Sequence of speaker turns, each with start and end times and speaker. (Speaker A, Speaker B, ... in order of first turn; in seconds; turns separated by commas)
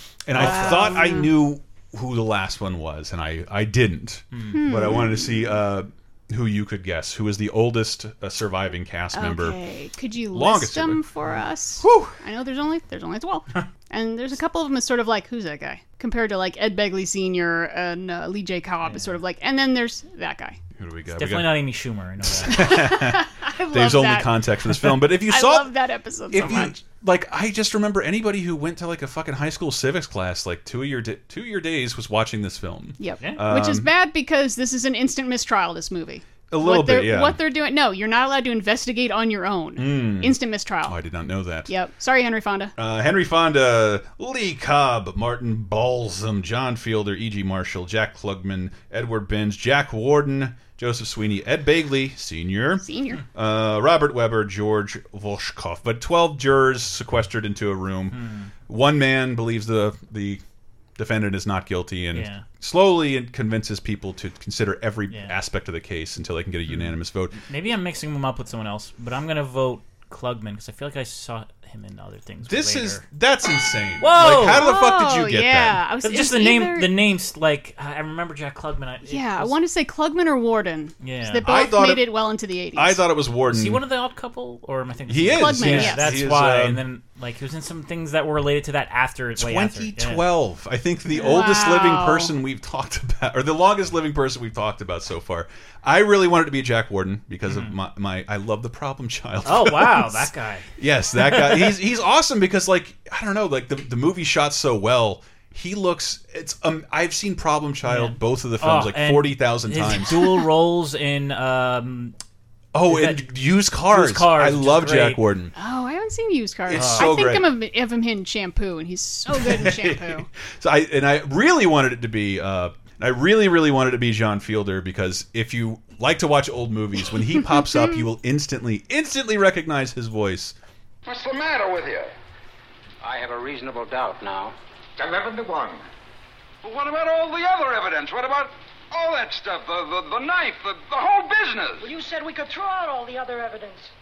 Speaker A: 0.3-9.6, Speaker B: 0.4-1.0, Speaker C: 0.4-1.3, Speaker B: 4.3-4.6, Speaker C: 4.5-5.5, Speaker C: 9.1-20.6, Speaker A: 10.3-11.1, Speaker A: 11.8-12.2, Speaker B: 18.9-19.1, Speaker A: 20.8-21.6, Speaker B: 21.1-22.7, Speaker A: 22.4-25.7, Speaker C: 22.5-26.8, Speaker A: 26.3-33.9, Speaker B: 26.4-26.7, Speaker C: 33.0-41.0, Speaker A: 36.5-37.4, Speaker A: 39.8-41.7, Speaker C: 41.7-42.7, Speaker A: 42.8-60.4, Speaker C: 52.8-53.2, Speaker B: 58.1-58.5, Speaker A: 61.0-67.4, Speaker B: 62.1-62.4, Speaker B: 65.1-65.3, Speaker B: 66.7-73.0, Speaker A: 72.5-75.8, Speaker B: 74.0-74.7, Speaker C: 74.4-76.9, Speaker B: 76.0-79.5, Speaker C: 79.0-83.0, Speaker B: 81.0-81.5, Speaker A: 81.4-82.1, Speaker A: 82.8-83.8, Speaker B: 83.5-90.2, Speaker A: 85.1-86.8, Speaker C: 85.4-86.2, Speaker A: 89.4-110.3, Speaker C: 91.1-92.3, Speaker B: 97.5-97.8, Speaker B: 99.5-101.8, Speaker B: 107.8-112.1, Speaker A: 112.7-115.5, Speaker B: 112.9-113.2, Speaker B: 113.8-115.2, Speaker C: 115.6-120.3, Speaker A: 116.7-117.5, Speaker B: 116.8-117.1, Speaker A: 119.3-130.6, Speaker C: 127.5-127.9, Speaker D: 131.1-132.1, Speaker D: 133.0-135.8, Speaker D: 136.6-141.9, Speaker E: 141.8-143.9